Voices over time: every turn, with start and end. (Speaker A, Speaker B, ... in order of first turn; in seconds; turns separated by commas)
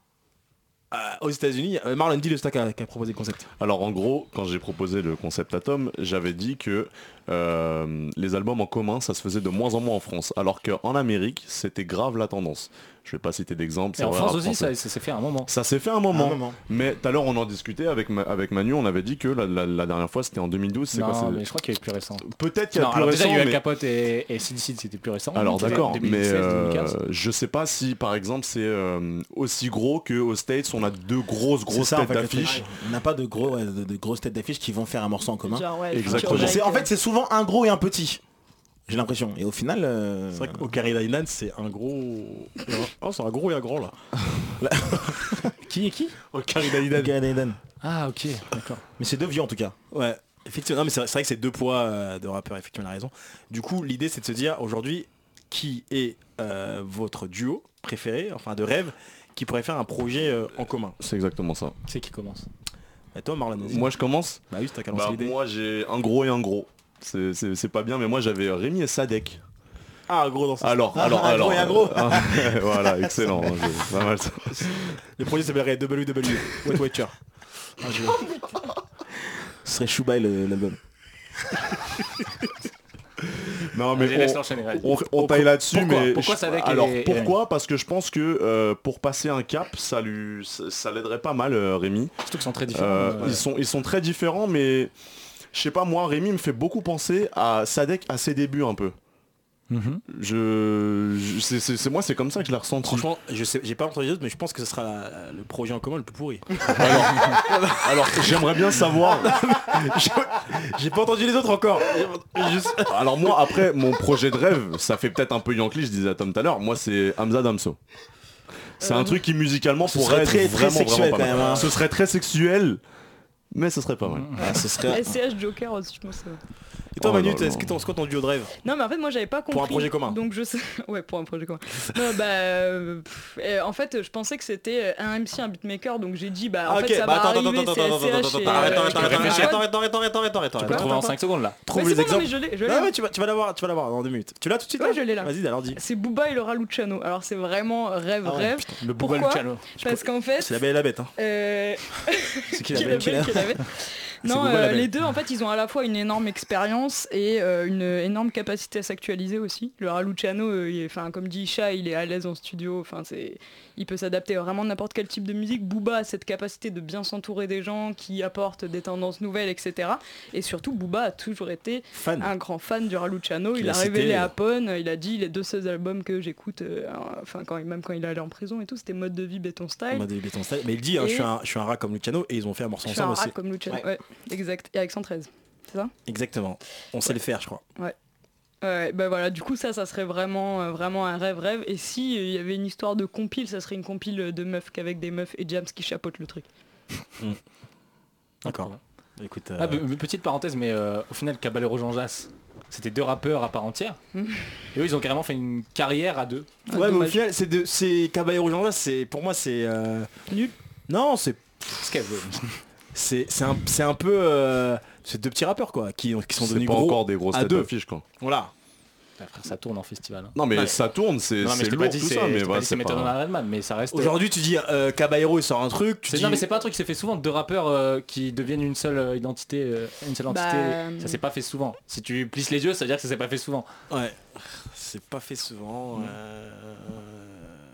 Speaker A: 0.9-3.5, Speaker B: 3.6-14.7, Speaker C: 14.0-15.5, Speaker B: 15.5-21.4, Speaker D: 16.1-16.6, Speaker C: 20.9-26.9, Speaker B: 22.2-23.6, Speaker B: 25.4-32.6, Speaker D: 31.7-38.2, Speaker E: 35.5-36.9, Speaker B: 35.9-36.6, Speaker A: 36.1-36.4, Speaker D: 38.9-40.7, Speaker A: 40.4-44.0, Speaker D: 44.6-45.5, Speaker A: 45.7-47.1, Speaker C: 45.9-46.1, Speaker D: 46.9-47.6, Speaker C: 47.8-48.8, Speaker D: 49.0-49.8, Speaker A: 49.9-61.0, Speaker B: 61.0-61.8, Speaker C: 61.9-62.5, Speaker A: 63.1-63.9, Speaker B: 63.6-69.4, Speaker A: 64.5-65.4, Speaker A: 70.1-72.3, Speaker B: 70.6-75.0, Speaker D: 71.0-72.5, Speaker A: 74.5-77.2, Speaker A: 77.8-78.2, Speaker D: 79.6-80.8, Speaker B: 83.4-92.1, Speaker C: 83.9-87.4, Speaker C: 92.3-93.4, Speaker B: 92.7-94.9, Speaker B: 95.5-99.0, Speaker C: 99.7-100.0, Speaker B: 100.1-103.1, Speaker A: 102.8-113.6, Speaker B: 106.7-109.4, Speaker B: 112.8-117.8, Speaker B: 118.8-122.8, Speaker E: 118.8-119.2, Speaker D: 119.9-121.7, Speaker A: 121.3-121.9, Speaker B: 123.5-124.4, Speaker C: 124.1-124.4, Speaker D: 124.4-125.2, Speaker E: 124.4-126.4, Speaker A: 127.0-128.5, Speaker B: 127.0-127.8, Speaker E: 128.6-139.8, Speaker A: 129.5-130.2, Speaker A: 136.7-145.8, Speaker C: 138.4-139.7, Speaker E: 140.6-141.2, Speaker C: 140.6-141.6, Speaker E: 141.7-142.9, Speaker E: 144.8-150.5, Speaker A: 148.2-148.7, Speaker C: 148.8-149.8, Speaker A: 149.8-151.1, Speaker E: 151.2-180.1, Speaker C: 152.5-153.5, Speaker A: 152.7-153.4, Speaker A: 154.2-154.9, Speaker A: 171.9-172.3, Speaker A: 173.6-174.3, Speaker A: 179.9-183.3, Speaker E: 181.0-181.3, Speaker E: 182.9-185.9, Speaker A: 186.1-187.6, Speaker E: 188.6-196.4, Speaker C: 198.4-198.8, Speaker A: 198.4-199.8, Speaker C: 199.6-204.0, Speaker E: 204.2-204.5, Speaker C: 204.7-206.5, Speaker E: 206.7-207.2, Speaker A: 206.7-210.1, Speaker A: 210.9-211.8, Speaker C: 211.7-212.6, Speaker A: 212.9-218.5, Speaker B: 216.4-218.0, Speaker C: 219.2-220.4, Speaker B: 220.3-223.2, Speaker C: 221.4-224.2, Speaker D: 221.5-221.7, Speaker A: 223.9-226.5, Speaker C: 226.1-233.7, Speaker E: 230.3-231.2, Speaker A: 233.9-234.2, Speaker A: 234.7-237.6